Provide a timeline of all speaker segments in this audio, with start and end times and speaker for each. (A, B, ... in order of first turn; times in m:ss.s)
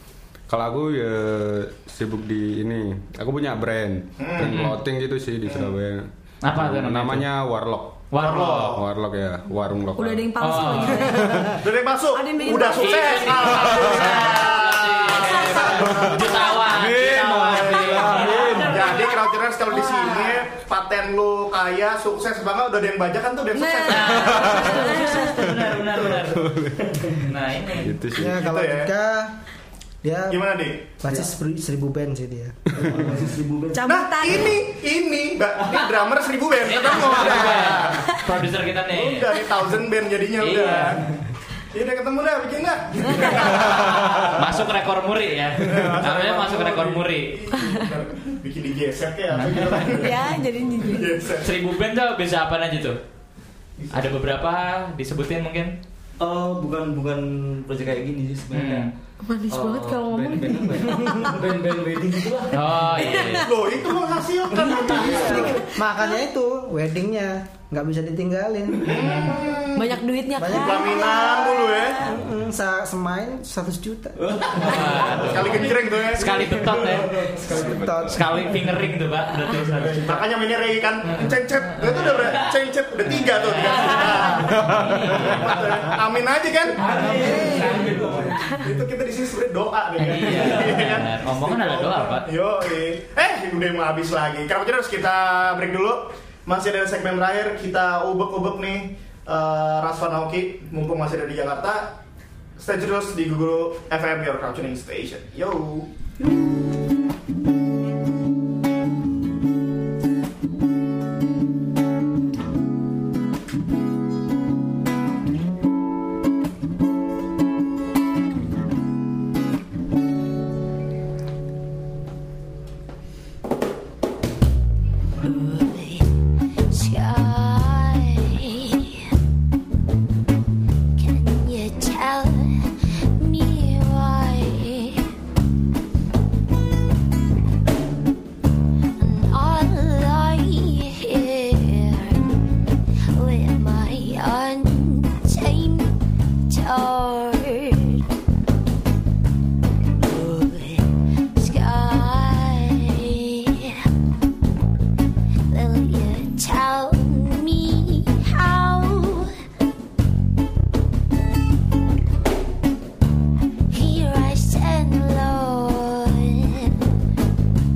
0:00.5-0:08.0 A
0:04.2-0:04.6 B
0:04.4-0:04.8 C
0:05.4-0:05.7 B
0:06.4-0:07.3 C
0:08.1-0:08.8 C
0:08.2-0:08.8 B
0:08.7-0:11.6 A
0:10.0-0:11.6 D
0:10.1-0:11.6 E
0:10.4-0:11.3 C
0:11.5-0:25.1 B
0:12.1-0:13.2 E
0:12.5-0:12.7 D
0:12.7-0:20.3 C
0:16.0-0:18.8 A
0:23.6-0:25.4 E
0:23.9-0:26.5 C
0:24.3-0:24.7 A
0:24.4-0:25.2 D
0:25.7-0:26.4 B
0:26.3-0:27.3 A
0:27.1-0:28.0 C
0:27.8-0:28.4 A
0:28.1-0:29.4 F
0:28.4-0:28.9 B
0:30.0-0:30.5 F
0:30.3-0:30.9 B
0:31.0-0:33.2 F
0:32.8-0:33.9 G
0:33.7-0:34.5 E
0:33.8-0:34.4 D
0:33.8-0:38.2 B
0:36.6-0:39.5 C
0:38.9-0:41.1 B
0:40.4-0:41.0 C
0:41.7-0:44.7 B
0:44.3-0:47.4 C
0:45.6-0:51.6 B
0:49.3-0:50.3 C
0:50.0-0:51.0 D
0:50.0-0:51.1 E
0:51.4-0:53.0 C
0:53.8-0:54.1 B
0:53.9-0:55.7 C
0:56.2-0:58.9 G
0:58.5-0:58.9 C
0:59.3-1:01.3 E
0:59.5-1:02.8 G
1:02.5-1:03.5 C
1:03.1-1:03.4 E
1:03.4-1:05.6 B
1:04.8-1:09.2 F
1:04.8-1:05.4 G
1:08.8-1:12.1 B
1:09.0-1:09.4 C
1:09.8-1:11.5 E
1:09.9-1:10.5 D
1:10.4-1:14.6 F
1:14.2-1:15.6 G
1:14.6-1:17.4 C
1:14.9-1:17.3 B
1:17.4-1:18.4 F
1:18.1-1:20.3 C
1:19.6-1:27.7 B
1:21.0-1:22.5 C
1:23.0-1:26.0 C
1:24.4-1:25.3 A
1:26.8-1:28.0 C
1:26.8-1:28.5 G
1:27.1-1:27.8 F
1:28.4-1:42.0 B
1:30.0-1:32.3 C
1:42.6-1:45.9 B
2:05.2-2:06.1 D
2:06.7-2:09.0 D
2:11.0-2:15.0 D
2:19.0-2:22.2 D
2:23.1-2:25.9 D
2:26.5-2:28.0 D
2:30.0-2:33.8 D
2:35.5-2:39.3 D
2:43.7-2:46.8 D